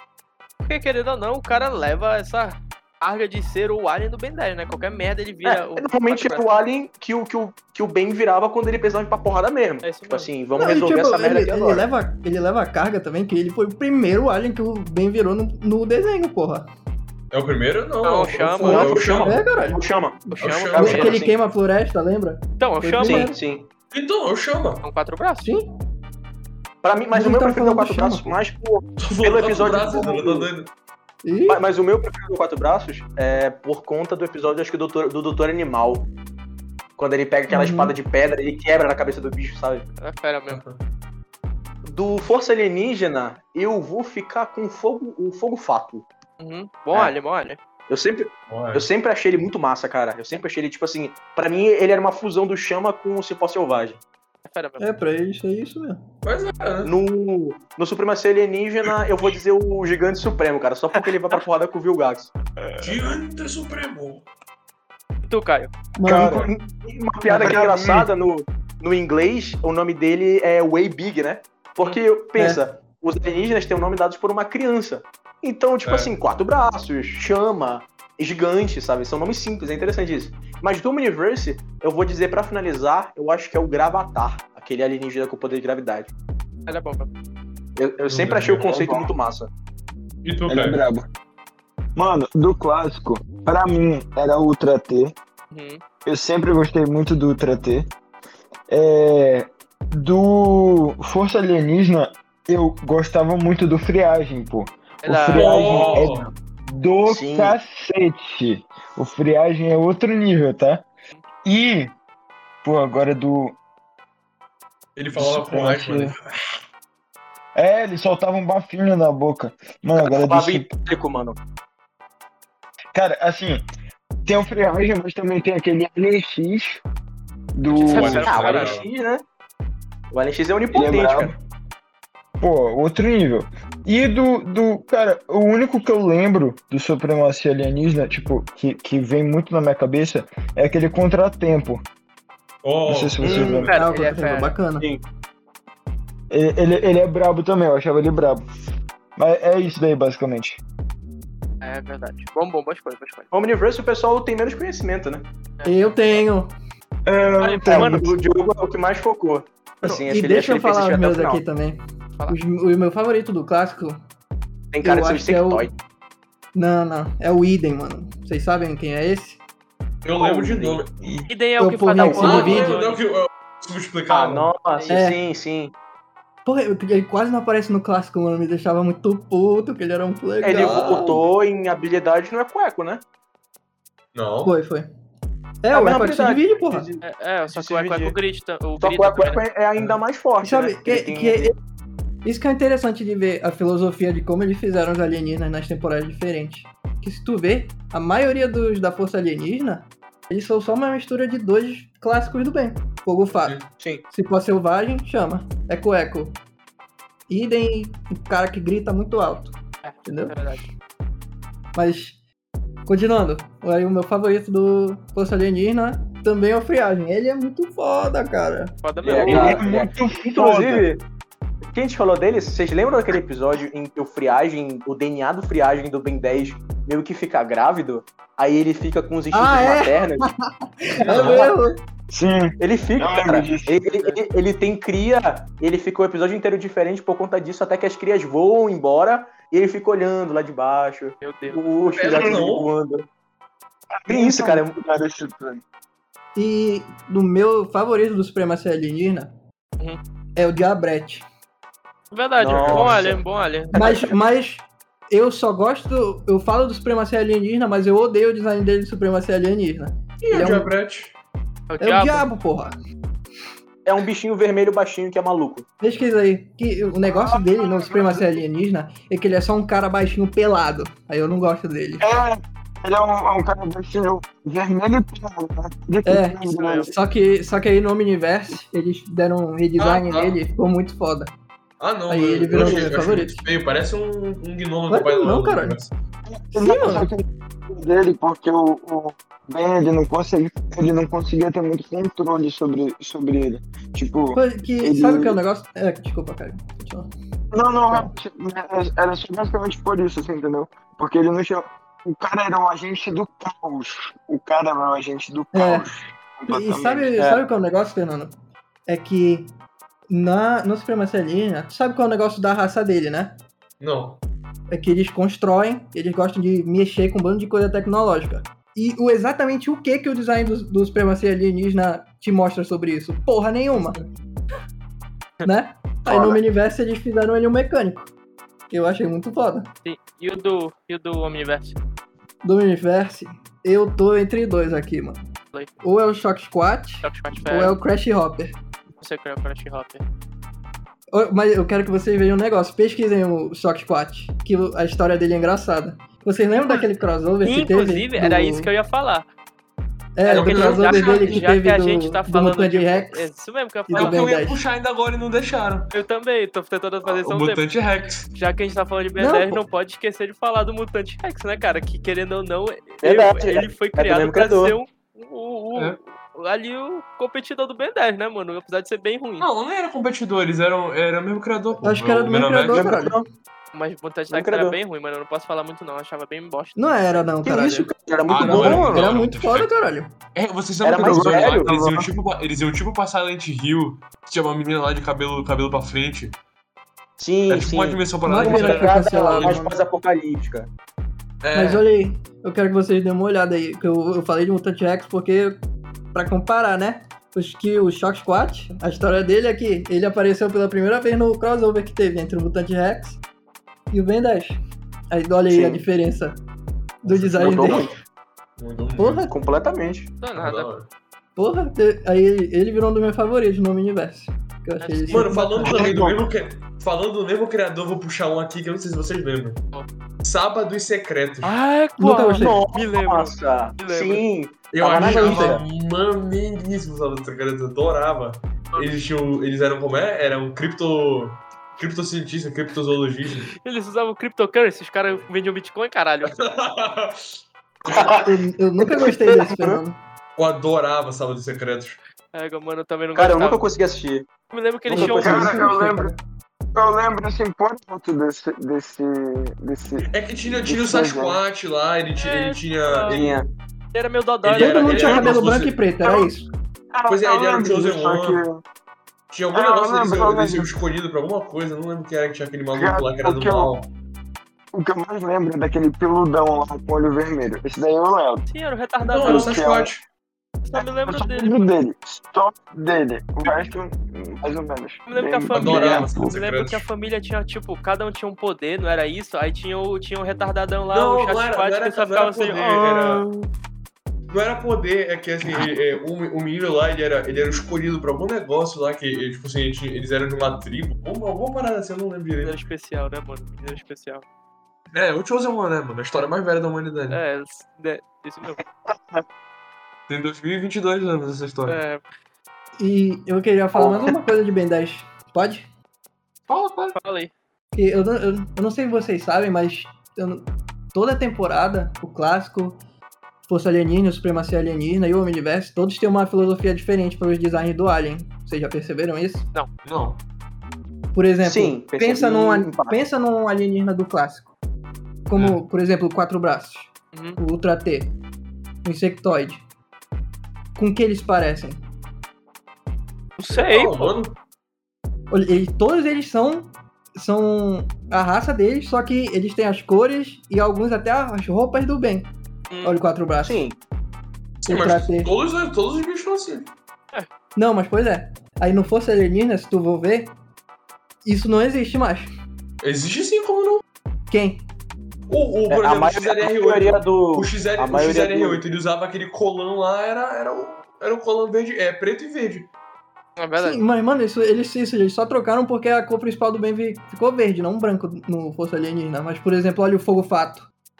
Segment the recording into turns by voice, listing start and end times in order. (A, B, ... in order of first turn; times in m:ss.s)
0:00.6-0:06.5 A
0:05.4-0:11.9 B
0:09.8-0:10.3 A
0:10.6-0:16.7 C
0:17.3-0:19.4 D
0:18.0-0:18.9 A
0:18.6-0:21.4 B
0:19.1-0:23.4 C
0:20.3-0:21.1 A
0:20.4-0:21.1 D
0:22.6-0:23.3 A
0:23.0-0:23.7 B
0:23.9-0:24.8 D
0:24.8-0:25.5 A
0:25.4-0:25.7 C
0:26.8-0:30.4 B
0:27.1-0:28.4 C
0:29.0-0:30.7 D
0:31.2-0:31.6 C
0:31.5-0:36.1 B
0:37.0-0:39.9 B
0:37.5-0:37.9 C
0:40.0-0:40.6 A
0:40.5-0:40.8 D
0:41.8-0:46.0 B
0:46.4-0:47.6 A
0:47.9-0:54.0 B
0:48.5-0:48.9 D
0:54.4-0:55.0 A
0:54.8-0:56.0 C
0:56.2-0:56.9 D
0:56.8-1:02.3 B
1:02.8-1:04.2 D
1:05.2-1:05.7 A
1:06.0-1:06.4 C
1:06.0-1:06.5 E
1:06.1-1:26.1 B
1:07.2-1:08.1 E
1:12.4-1:12.6 C
1:15.8-1:16.1 D
1:26.7-1:27.1 A
1:27.8-1:29.5 B
1:28.0-1:28.7 D
1:28.6-1:29.1 E
1:30.2-1:30.8 D
1:30.5-1:31.1 E
1:32.0-1:35.2 E
1:35.5-1:35.8 A
1:36.0-1:37.9 E
1:38.7-1:50.8 E
1:45.0-1:46.0 A
1:45.3-1:46.3 D
1:47.0-1:47.6 B
1:51.4-1:51.9 E
1:52.6-1:53.6 E
1:55.0-1:56.2 D
1:55.1-1:56.1 E
1:57.5-2:00.7 E
2:00.0-2:01.4 B
2:02.9-2:03.6 E
2:04.2-2:06.8 E
2:07.5-2:08.4 E
2:07.7-2:08.7 A
2:07.8-2:08.9 D
2:08.2-2:09.2 B
2:10.1-2:11.3 B
2:10.7-2:11.4 E
2:12.4-2:21.8 E
2:22.6-2:23.8 D
2:22.8-2:23.7 E
2:23.2-2:23.5 B
2:23.3-2:24.9 C
2:23.5-2:24.5 A
2:26.3-2:28.4 E
2:29.2-2:30.6 E
2:31.6-2:33.3 A
2:33.3-2:35.2 B
2:35.6-2:36.2 A
2:35.6-2:36.5 C
2:37.0-2:38.1 E
2:37.4-2:38.0 A
2:37.6-2:41.4 B
2:39.8-2:44.0 C
2:44.7-2:45.7 B
2:44.8-2:45.7 C
2:46.5-2:49.4 C
2:50.0-2:50.9 D
2:50.2-2:50.8 B
2:51.0-2:51.3 E
2:51.3-2:53.0 A
2:51.6-2:52.7 C
2:52.0-2:52.6 B
2:52.2-2:54.5 D
2:54.1-2:55.7 B
2:54.7-2:55.0 A
2:54.9-2:55.2 C
2:56.4-3:01.2 C
3:00.4-3:03.0 B
3:04.1-3:04.5 D
3:04.4-3:04.9 C
3:05.6-3:06.9 C
3:05.7-3:08.2 B
3:07.0-3:09.4 A
3:08.8-3:11.5 B
3:10.4-3:11.5 C
3:12.2-3:26.4 C
3:23.8-3:24.0 B
3:27.3-3:29.5 C
3:29.8-3:30.7 A
3:30.0-3:30.3 C
3:31.7-3:32.2 C
3:32.8-3:38.7 C
3:38.8-3:39.7 A
3:39.0-3:41.0 B
3:39.1-3:40.8 E
3:41.7-3:50.3 B
3:49.3-3:51.8 C
3:51.1-3:51.5 D
3:51.1-3:51.4 B
3:52.1-3:53.8 E
3:52.6-4:03.1 B
3:53.9-3:54.2 A
4:01.2-4:01.7 A
4:01.9-4:02.7 D
4:04.0-4:05.6 E
4:04.1-4:04.7 B
4:06.3-4:09.3 C
4:10.4-4:11.2 C
4:12.1-4:13.7 A
4:12.4-4:14.2 B
4:12.5-4:13.0 D
4:13.7-4:20.7 C
4:20.2-4:21.1 D
4:21.7-4:22.3 A
4:21.8-4:22.7 C
4:23.8-4:25.7 B
4:25.8-4:32.0 C
4:27.0-4:28.2 E
4:32.0-4:36.9 E
4:36.0-4:41.3 C
4:36.4-4:36.9 A
4:39.8-4:40.4 D
4:41.8-4:45.9 D
4:42.1-4:43.4 C
4:42.5-4:43.0 E
4:44.9-4:45.8 C
4:46.3-4:55.4 E
4:46.5-4:47.1 C
4:54.3-4:57.1 C
4:57.5-5:07.2 E
5:05.5-5:05.9 C
5:06.5-5:08.3 C
5:07.2-5:07.4 B
5:08.9-5:09.5 C
5:10.1-5:13.4 C
5:13.8-5:14.2 D
5:14.7-5:24.0 C
5:25.4-5:28.1 C
5:26.0-5:26.4 B
5:28.7-5:29.7 C
5:29.8-5:31.8 A
5:32.4-5:35.2 C
5:35.8-5:38.5 C
5:37.0-5:37.8 A
5:39.0-5:40.0 A
5:41.1-5:48.7 C
5:46.6-5:46.9 A
5:47.4-5:49.3 A
5:50.2-5:53.2 C
5:50.2-5:54.3 A
5:50.3-5:51.4 D
5:53.9-5:54.6 C
5:53.9-5:55.9 D
5:55.9-5:57.6 A
5:57.0-5:58.3 D
5:58.3-6:09.5 A
5:59.2-5:59.6 C
6:03.0-6:04.8 B
6:09.4-6:12.9 D
6:11.8-6:13.2 C
6:12.7-6:13.2 B
6:13.7-6:17.2 A
6:14.3-6:14.8 B
6:16.8-6:20.1 C
6:17.4-6:19.0 B
6:18.3-6:19.7 D
6:20.3-6:26.4 D
6:20.8-6:21.8 B
6:21.0-6:22.1 E
6:27.2-6:30.7 B
6:27.5-6:29.6 D
6:28.2-6:29.7 C
6:31.4-6:31.8 D
6:31.5-6:35.6 C
6:36.1-6:43.2 C
6:43.9-6:44.6 C
6:45.1-6:46.4 C
6:45.5-6:45.8 B
6:47.0-6:47.9 C
6:47.0-6:47.9 D
6:47.4-6:47.9 B
6:48.6-6:49.3 D
6:49.0-6:49.3 C
6:49.3-6:50.1 B
6:50.2-6:50.7 A
6:50.3-6:50.9 D
6:51.4-6:55.9 C
6:54.8-6:55.4 A
6:55.1-6:59.6 D
6:55.6-6:56.3 E
7:00.2-7:01.6 D
7:01.4-7:04.2 A
7:02.0-7:02.6 C
7:02.4-7:05.6 B
7:04.7-7:13.5 D
7:05.0-7:05.6 C
7:13.5-7:16.4 A
7:16.2-7:17.3 D
7:17.8-7:18.1 D
7:17.8-7:18.2 B
7:18.0-7:20.0 C
7:18.8-7:19.8 B
7:20.4-7:22.0 D
7:22.3-7:23.6 A
7:23.1-7:24.3 B
7:24.5-7:25.6 A
7:24.9-7:25.5 B
7:24.9-7:26.1 E
7:25.2-7:26.2 C
7:26.7-7:31.4 E
7:30.1-7:33.4 D
7:32.2-7:33.2 A
7:33.1-7:33.5 B
7:33.9-7:35.3 A
7:34.4-7:35.8 D
7:34.6-7:36.4 C
7:36.9-7:38.6 E
7:37.1-7:38.4 D
7:39.3-7:43.9 D
7:39.5-7:40.7 E
7:42.7-7:43.7 E
7:44.7-7:48.4 E
7:48.5-7:49.6 A
7:49.0-7:50.0 D
7:49.2-7:49.9 E
7:50.6-7:51.6 A
7:50.7-7:56.3 E
7:55.1-8:03.4 A
7:55.5-7:56.8 D
8:00.9-8:03.2 D
8:04.3-8:12.6 D
8:12.4-8:14.2 A
8:14.9-8:17.2 D
8:17.1-8:18.6 A
8:18.9-8:19.2 E
8:20.1-8:21.8 D
8:21.6-8:22.0 A
8:22.8-8:25.7 C
8:23.8-8:24.1 E
8:26.5-8:27.0 D
8:26.9-8:27.3 A
8:27.7-8:32.8 C
8:33.4-8:39.4 C
8:39.8-8:40.2 D
8:41.1-8:44.5 C
8:41.4-8:43.0 B
8:45.3-8:48.1 C
8:47.1-8:47.4 A
8:48.8-8:49.6 C
8:50.8-8:51.8 C
8:53.4-8:54.1 A
8:53.5-8:54.4 D
8:55.3-9:02.3 C
9:02.7-9:03.0 A
9:02.8-9:03.6 C
9:03.4-9:03.8 B
9:04.6-9:06.7 D
9:04.6-9:05.3 C
9:07.6-9:10.3 C
9:11.2-9:12.3 C
9:12.8-9:13.8 D
9:14.3-9:14.6 C
9:15.3-9:22.7 D
9:15.7-9:18.6 B
9:23.4-9:23.8 A
9:23.6-9:30.7 C